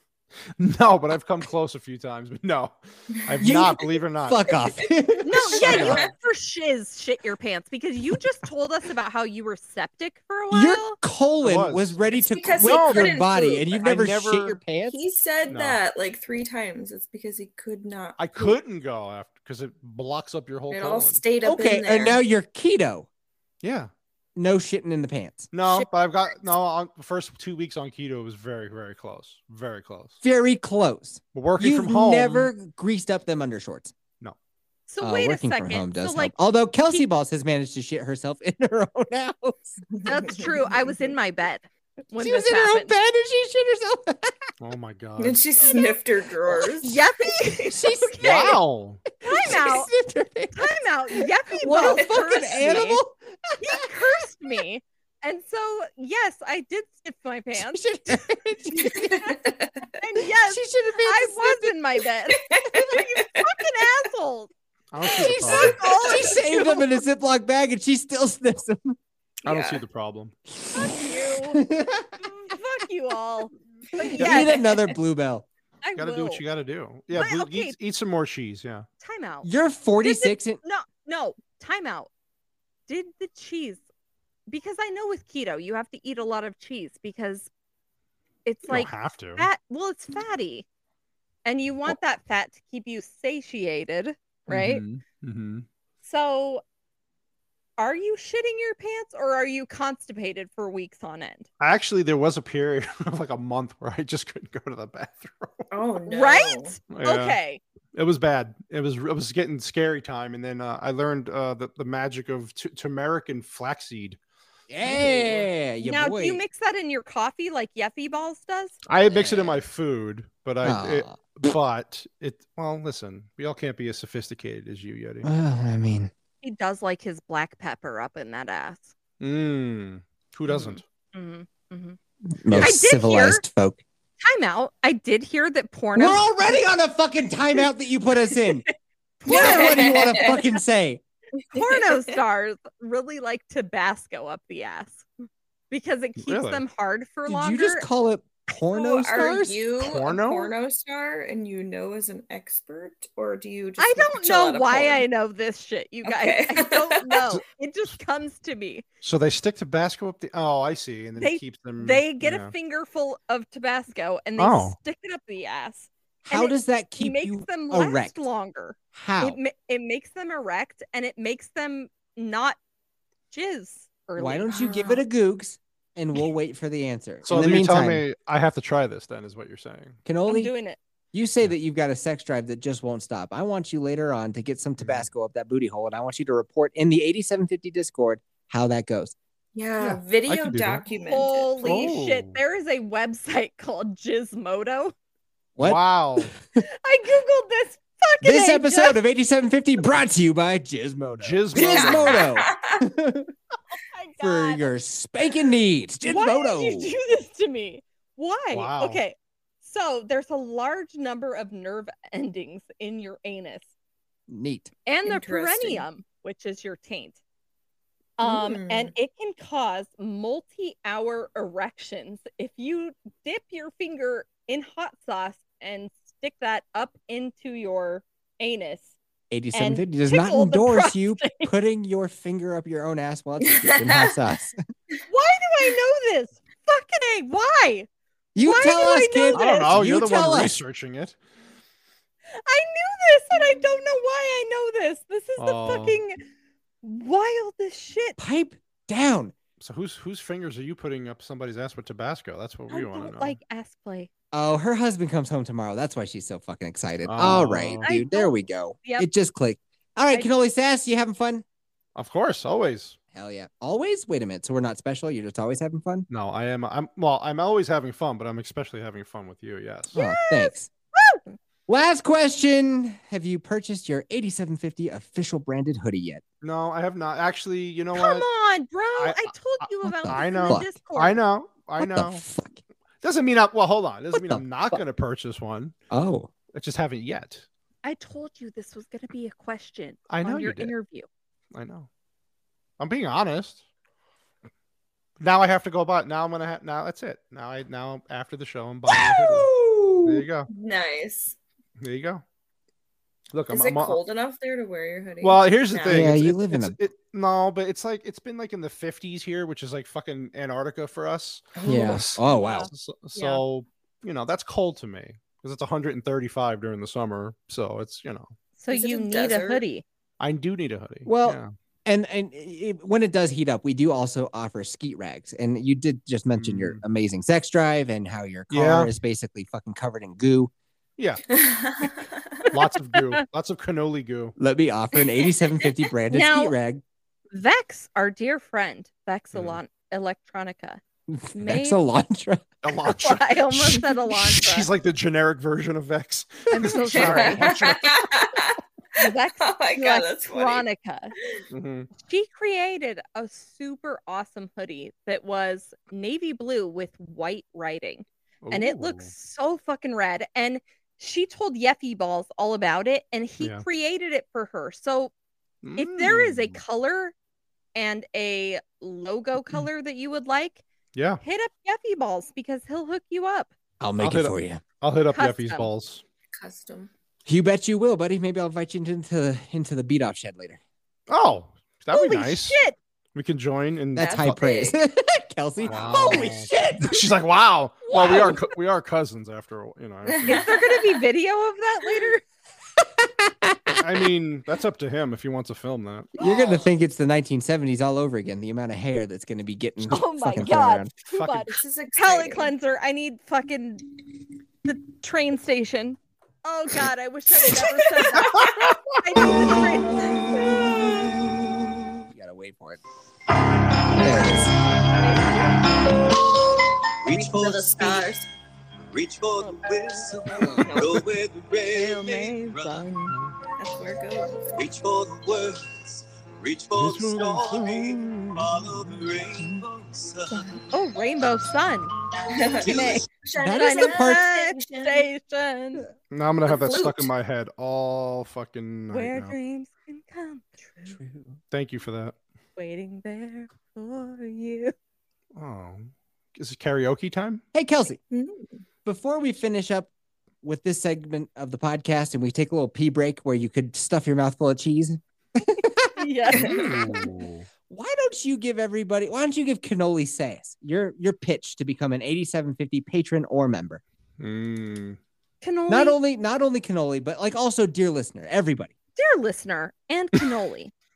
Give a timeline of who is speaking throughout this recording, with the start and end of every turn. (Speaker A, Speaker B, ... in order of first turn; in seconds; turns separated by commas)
Speaker A: 0.5-4.5, Speaker B: 3.2-3.9, Speaker C: 3.4-6.0, Speaker B: 4.5-6.1, Speaker D: 5.2-11.0, Speaker A: 5.7-6.0, Speaker C: 10.5-15.0, Speaker A: 11.4-12.0, Speaker B: 12.1-14.1, Speaker A: 12.6-13.2, Speaker A: 13.8-14.6, Speaker B: 14.9-18.6, Speaker A: 15.5-15.8, Speaker A: 18.2-21.2, Speaker B: 20.7-22.2, Speaker C: 21.4-23.1, Speaker A: 23.6-23.9, Speaker C: 24.4-25.9, Speaker A: 25.5-30.2, Speaker C: 30.2-33.9, Speaker A: 31.3-32.5, Speaker D: 34.9-36.4, Speaker C: 35.0-39.8, Speaker B: 39.9-40.9, Speaker D: 40.0-42.9, Speaker C: 42.1-44.4, Speaker A: 44.6-45.4, Speaker B: 45.2-47.8, Speaker D: 45.6-46.0, Speaker D: 46.8-48.6, Speaker C: 47.7-48.2, Speaker A: 48.2-49.0, Speaker C: 49.2-53.9, Speaker D: 49.2-49.9, Speaker D: 50.5-53.0, Speaker B: 51.7-52.8, Speaker D: 53.6-59.0, Speaker C: 57.5-59.4, Speaker B: 59.0-59.9, Speaker D: 60.0-64.5, Speaker C: 60.5-61.7, Speaker B: 62.5-63.5, Speaker A: 64.9-65.8, Speaker C: 65.0-69.0, Speaker D: 65.3-66.8, Speaker B: 66.0-66.8, Speaker A: 69.4-70.3, Speaker B: 69.4-69.8, Speaker C: 70.6-72.2, Speaker D: 70.7-71.6, Speaker D: 72.2-74.7, Speaker C: 74.2-75.5, Speaker B: 74.2-74.9, Speaker D: 75.8-76.4, Speaker A: 76.0-78.8, Speaker D: 77.1-77.8, Speaker D: 79.0-79.5, Speaker C: 79.4-80.6, Speaker D: 80.0-82.1, Speaker D: 82.9-83.8, Speaker D: 84.5-87.5, Speaker D: 88.5-90.6, Speaker A: 88.7-89.5, Speaker D: 91.4-94.8, Speaker A: 94.5-95.7, Speaker D: 96.0-96.6, Speaker D: 97.8-101.5, Speaker A: 101.6-105.7, Speaker B: 105.7-106.7, Speaker D: 106.1-107.6, Speaker A: 106.9-107.4, Speaker A: 107.9-114.2, Speaker C: 114.7-116.4, Speaker A: 114.8-115.5, Speaker D: 115.8-118.8, Speaker A: 118.8-125.3, Speaker C: 119.1-119.6, Speaker C: 120.6-121.2, Speaker C: 125.2-126.1, Speaker D: 126.4-128.9, Speaker A: 129.2-130.8, Speaker D: 130.5-132.0, Speaker C: 132.3-133.8, Speaker D: 132.6-133.4, Speaker D: 134.2-136.5, Speaker C: 135.9-138.7, Speaker D: 139.2-140.3, Speaker C: 139.2-141.0, Speaker B: 139.3-140.4, Speaker B: 141.4-142.1, Speaker D: 141.5-145.1, Speaker D: 145.7-147.9, Speaker A: 146.2-146.6, Speaker C: 147.3-149.6, Speaker B: 148.7-155.0, Speaker A: 149.8-150.5, Speaker D: 153.8-158.8, Speaker B: 156.0-157.3, Speaker A: 159.0-162.5, Speaker D: 161.2-172.6, Speaker A: 164.4-164.8, Speaker C: 166.2-168.1, Speaker C: 168.9-169.4, Speaker D: 173.3-174.6, Speaker C: 174.2-178.0, Speaker B: 174.5-175.0, Speaker A: 177.2-180.0, Speaker C: 180.1-180.5, Speaker D: 180.3-180.8, Speaker C: 181.1-189.1, Speaker A: 184.8-185.1, Speaker B: 189.5-191.8, Speaker A: 189.8-190.8, Speaker D: 190.9-194.9, Speaker A: 191.6-192.4, Speaker C: 195.6-196.4, Speaker A: 195.6-196.3, Speaker D: 196.6-199.0, Speaker C: 198.2-203.3, Speaker A: 201.2-202.3, Speaker B: 201.5-202.8, Speaker D: 203.9-204.7, Speaker C: 204.2-206.9, Speaker D: 206.0-213.7, Speaker A: 208.5-209.0, Speaker C: 214.3-214.7, Speaker D: 214.8-217.2, Speaker B: 215.1-215.8, Speaker D: 218.2-228.9, Speaker B: 218.2-218.9, Speaker C: 229.3-234.6, Speaker D: 229.5-231.5, Speaker B: 233.6-234.1, Speaker D: 235.1-237.9, Speaker C: 238.3-240.6, Speaker D: 238.4-239.7, Speaker A: 239.3-241.2, Speaker D: 242.3-246.2, Speaker A: 245.4-246.0, Speaker D: 246.8-248.2, Speaker C: 248.2-249.3, Speaker A: 249.6-253.3, Speaker D: 252.7-254.1, Speaker C: 254.3-261.4, Speaker A: 257.0-257.8, Speaker D: 257.8-259.1, Speaker A: 261.9-263.0, Speaker C: 263.1-266.1, Speaker A: 266.1-269.9, Speaker C: 269.9-270.7, Speaker D: 269.9-271.2, Speaker C: 271.7-276.2, Speaker A: 276.4-278.3, Speaker D: 277.9-281.2, Speaker A: 278.9-282.2, Speaker C: 279.9-280.7, Speaker C: 281.8-282.6, Speaker A: 283.0-285.8, Speaker C: 284.1-284.8, Speaker C: 285.9-286.3, Speaker A: 286.5-287.4, Speaker D: 287.8-291.1, Speaker A: 290.1-290.7, Speaker A: 291.5-291.9, Speaker A: 292.8-293.6, Speaker A: 295.2-299.5, Speaker C: 298.9-300.2, Speaker A: 300.0-300.5, Speaker B: 300.5-301.4, Speaker A: 301.8-302.2, Speaker A: 303.3-304.0, Speaker B: 303.5-306.2, Speaker A: 305.2-318.3, Speaker C: 305.9-306.8, Speaker B: 311.6-312.0, Speaker C: 311.6-312.7, Speaker D: 312.4-313.4, Speaker D: 318.6-319.8, Speaker B: 318.7-319.6, Speaker A: 320.2-321.5, Speaker C: 321.1-330.5, Speaker A: 326.4-326.8, Speaker A: 328.5-328.9, Speaker A: 331.0-331.2, Speaker B: 331.3-332.4, Speaker A: 332.5-334.3, Speaker C: 334.4-336.8, Speaker B: 335.0-335.7, Speaker D: 336.1-336.5, Speaker D: 337.3-340.8, Speaker A: 339.3-339.6, Speaker C: 341.1-342.5, Speaker D: 341.3-341.8, Speaker A: 342.6-347.9, Speaker D: 343.0-344.7, Speaker D: 346.5-347.7, Speaker B: 346.6-350.6, Speaker D: 349.0-351.1, Speaker A: 351.5-351.9, Speaker D: 352.0-365.1, Speaker A: 358.4-359.1, Speaker A: 363.4-363.6, Speaker A: 365.6-366.6, Speaker D: 365.8-367.1, Speaker D: 367.8-370.6, Speaker A: 370.9-371.2, Speaker D: 371.2-373.5, Speaker C: 373.8-374.6, Speaker A: 374.0-376.0, Speaker D: 375.1-375.7, Speaker B: 376.3-376.9, Speaker C: 377.2-380.6, Speaker A: 381.1-382.6, Speaker D: 381.9-382.8, Speaker A: 383.1-384.4, Speaker B: 383.9-384.8, Speaker C: 383.9-387.0, Speaker A: 385.6-390.6, Speaker B: 385.7-386.2, Speaker D: 387.9-388.5, Speaker B: 390.1-391.0, Speaker D: 390.2-392.2, Speaker C: 393.0-393.8, Speaker A: 393.8-396.1, Speaker C: 396.2-400.9, Speaker D: 399.8-403.9, Speaker A: 401.1-401.5, Speaker B: 401.5-402.5, Speaker D: 404.6-411.0, Speaker B: 407.4-408.2, Speaker A: 408.3-408.7, Speaker B: 409.4-411.4, Speaker C: 412.1-412.8, Speaker C: 413.9-414.6, Speaker B: 415.0-415.4, Speaker A: 415.2-415.5, Speaker E: 417.0-418.2, Speaker B: 417.1-418.3, Speaker E: 418.9-422.9, Speaker D: 419.4-419.7, Speaker B: 420.4-421.0, Speaker D: 421.7-423.1, Speaker B: 421.7-422.6, Speaker B: 423.6-424.7, Speaker E: 424.6-430.5, Speaker A: 426.7-428.9, Speaker D: 430.5-431.9, Speaker B: 432.3-435.0, Speaker E: 432.6-433.1, Speaker D: 432.6-435.8, Speaker C: 433.4-434.2, Speaker A: 436.1-439.3, Speaker B: 436.4-437.1, Speaker D: 438.9-441.0, Speaker C: 440.9-441.4, Speaker A: 441.5-442.2, Speaker D: 442.6-444.7, Speaker A: 445.3-447.4, Speaker C: 447.5-448.0, Speaker B: 448.1-448.6, Speaker C: 448.8-449.9, Speaker C: 450.4-455.9, Speaker D: 456.0-457.1, Speaker B: 456.3-456.9, Speaker A: 456.3-457.5, Speaker C: 457.7-463.8, Speaker A: 464.2-465.0, Speaker D: 465.4-466.0, Speaker C: 465.7-468.7, Speaker D: 469.0-470.7